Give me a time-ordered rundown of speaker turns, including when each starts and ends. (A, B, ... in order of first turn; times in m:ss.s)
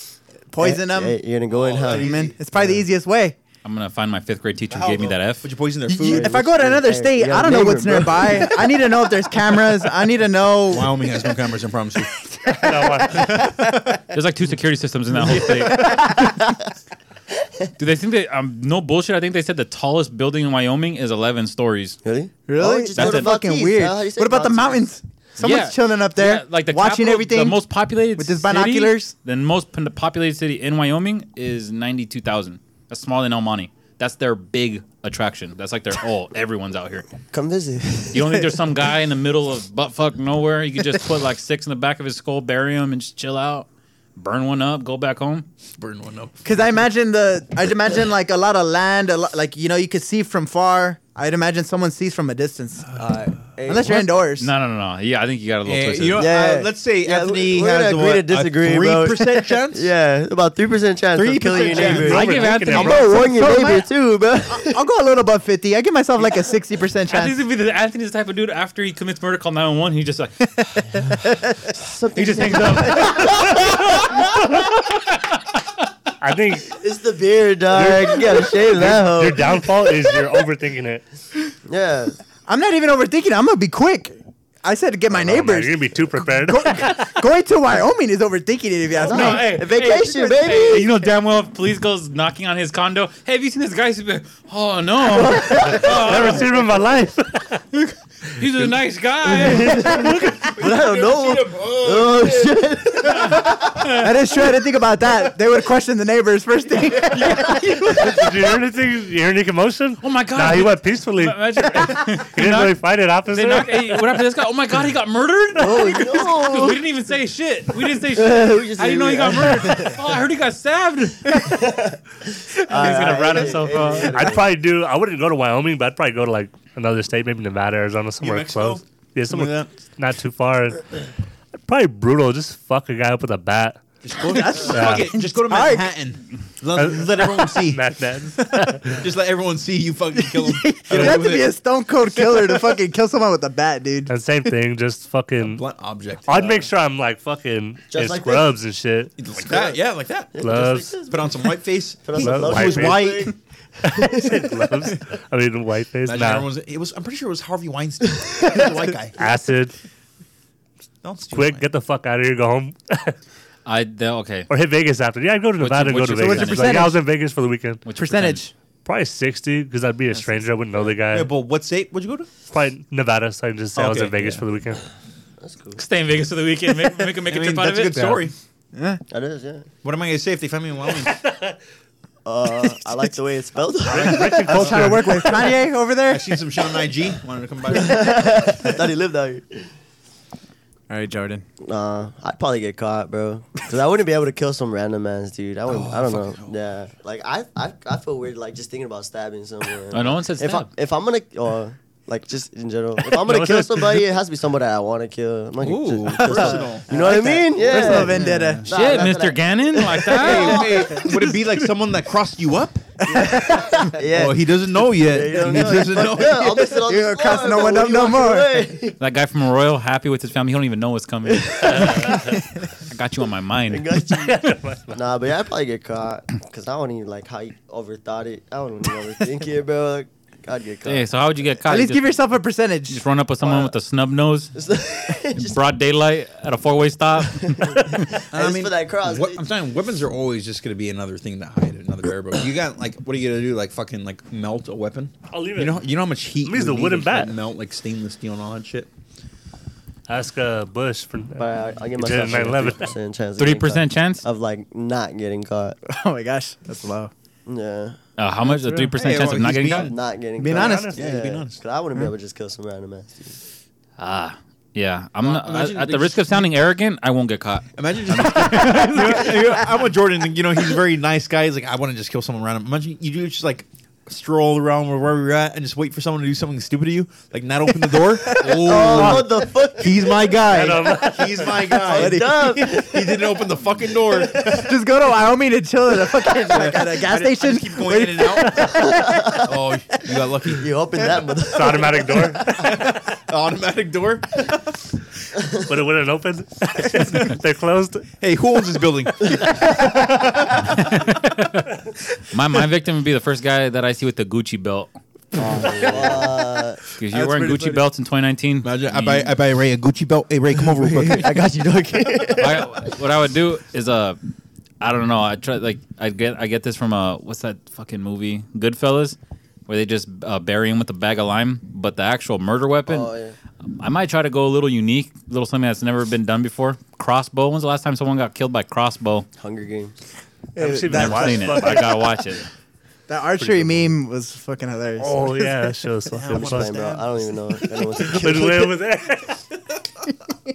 0:00.5-0:01.2 A
0:00.6-0:02.8 B
0:01.5-0:02.4 C
0:01.9-0:03.4 A
0:03.6-0:05.5 D
0:04.7-0:06.4 C
0:05.9-0:11.1 A
0:06.0-0:08.6 B
0:10.7-0:12.2 C
0:12.3-0:14.0 A
0:12.6-0:13.4 E
0:14.1-0:16.1 D
0:15.2-0:16.5 A
0:15.7-0:16.6 B
0:17.8-0:22.0 D
0:22.0-0:24.8 B
0:22.5-0:27.6 A
0:23.0-0:23.3 D
0:25.4-0:37.1 D
0:28.2-0:29.1 A
0:37.3-0:38.5 B
0:38.1-0:45.5 D
0:45.8-0:46.4 C
0:46.4-0:52.8 A
0:52.9-0:53.2 C
0:53.0-0:54.0 B
0:53.7-0:54.5 A
0:54.4-0:56.3 D
0:55.6-0:59.9 C
0:56.2-1:04.8 B
1:01.1-1:02.2 C
1:01.8-1:03.1 E
1:02.1-1:03.2 D
1:02.7-1:03.9 A
1:04.5-1:07.4 A
1:07.1-1:10.5 D
1:10.7-1:11.5 A
1:11.7-1:14.3 B
1:12.1-1:15.8 D
1:16.2-1:16.8 E
1:16.7-1:19.6 B
1:17.7-1:21.0 E
1:21.7-1:22.2 B
1:22.5-1:29.8 A
1:25.2-1:26.9 E
1:29.0-1:30.9 B
1:29.0-1:36.5 D
1:35.1-1:36.2 B
1:35.6-1:37.6 E
1:37.8-1:40.3 D
1:39.2-1:43.5 B
1:40.3-1:43.4 C
1:43.8-1:44.1 D
1:44.0-1:48.2 A
1:47.9-1:54.0 E
1:50.0-2:01.5 D
1:55.6-1:56.8 B
1:58.1-2:00.0 B
2:01.3-2:04.5 B
2:02.7-2:04.4 D
2:04.1-2:11.0 E
2:08.2-2:09.7 C
2:11.6-2:13.8 E
2:14.0-2:21.5 C
2:14.2-2:15.9 A
2:14.6-2:15.1 E
2:16.7-2:19.0 E
2:20.2-2:24.1 A
2:20.9-2:21.2 E
2:24.1-2:25.6 E
2:25.4-2:26.6 C
2:26.3-2:29.1 E
2:27.9-2:28.5 B
2:29.2-2:33.3 C
2:29.4-2:29.8 B
2:30.3-2:31.3 B
2:30.4-2:30.9 E
2:32.0-2:34.7 B
2:32.2-2:33.1 E
2:33.8-2:36.5 E
2:36.0-2:39.3 C
2:39.2-2:39.7 E
2:41.0-2:41.6 C
2:41.3-2:43.2 E
2:43.6-2:44.5 D
2:44.5-2:47.8 E
2:45.6-2:46.8 C
2:46.2-2:47.0 A
2:46.3-2:46.7 D
2:47.8-2:48.4 D
2:48.0-2:48.5 A
2:48.8-2:51.3 E
2:51.1-2:52.3 C
2:52.5-2:54.8 E
2:53.7-2:54.4 C
2:55.4-2:55.8 B
2:55.8-2:58.0 D
2:57.2-2:58.3 C
2:57.9-2:58.2 E
2:58.7-2:59.0 A
2:59.1-2:59.7 B
2:59.8-3:01.2 C
3:01.0-3:01.6 E
3:02.2-3:04.8 B
3:03.8-3:05.5 E
3:04.0-3:04.9 C
3:04.4-3:06.4 A
3:06.1-3:08.3 C
3:07.7-3:09.7 B
3:10.9-3:11.4 A
3:11.6-3:31.3 B
3:15.7-3:16.5 C
3:19.9-3:20.7 D
3:23.2-3:24.0 E
3:25.6-3:28.7 C
3:26.1-3:28.6 A
3:28.7-3:30.7 D
3:30.1-3:32.8 C
3:33.0-3:33.9 A
3:33.2-3:39.0 B
3:34.1-3:36.7 C
3:36.2-3:38.7 A
3:39.0-3:43.9 D
3:41.3-3:42.4 B
3:43.7-3:51.1 B
3:44.2-3:45.0 E
3:50.8-3:52.2 D
3:51.6-3:53.0 A
3:52.9-3:54.6 D
3:53.4-3:53.7 B
3:54.5-3:55.6 B
3:55.3-3:58.0 D
3:57.4-3:59.4 B
3:58.3-4:08.9 C
4:05.3-4:05.8 E
4:06.4-4:07.3 E
4:10.1-4:13.0 E
4:11.4-4:15.8 B
4:13.4-4:14.2 D
4:15.8-4:17.1 A
4:17.4-4:18.0 B
4:18.2-4:19.9 D
4:18.5-4:18.9 A
4:19.0-4:21.6 C
4:19.7-4:23.4 B
4:20.4-4:21.0 A
4:20.4-4:21.0 E
4:24.0-4:29.4 D
4:25.2-4:26.5 C
4:27.8-4:44.7 C
4:28.6-4:28.9 A
4:37.9-4:38.9 A
4:38.4-4:40.4 B
4:38.9-4:39.2 E
4:40.4-4:41.6 E
4:41.6-4:44.6 B
4:41.9-4:42.5 A
4:44.4-4:49.4 A
4:46.6-4:51.4 C
4:48.5-4:49.5 B
4:50.5-4:52.8 B
4:51.4-4:52.5 E
4:52.4-4:54.7 C
4:55.6-4:58.1 E
4:57.0-4:57.3 C
4:58.2-5:00.6 C
4:59.4-5:00.0 B
5:00.6-5:01.7 D
5:02.3-5:04.9 D
5:05.3-5:06.3 A
5:05.6-5:06.0 D
5:05.8-5:06.8 B
5:06.9-5:09.3 D
5:07.1-5:07.8 A
5:08.6-5:11.4 C
5:10.7-5:12.8 B
5:12.4-5:14.2 D
5:14.8-5:23.1 D
5:22.9-5:23.4 B
5:23.6-5:29.3 D
5:29.4-5:30.0 B
5:30.6-5:31.8 A
5:30.6-5:32.0 E
5:30.9-5:32.5 D
5:33.1-5:35.7 A
5:33.4-5:33.9 E
5:35.0-5:36.7 E
5:36.1-5:37.1 C
5:36.3-5:38.8 B
5:37.9-5:39.4 E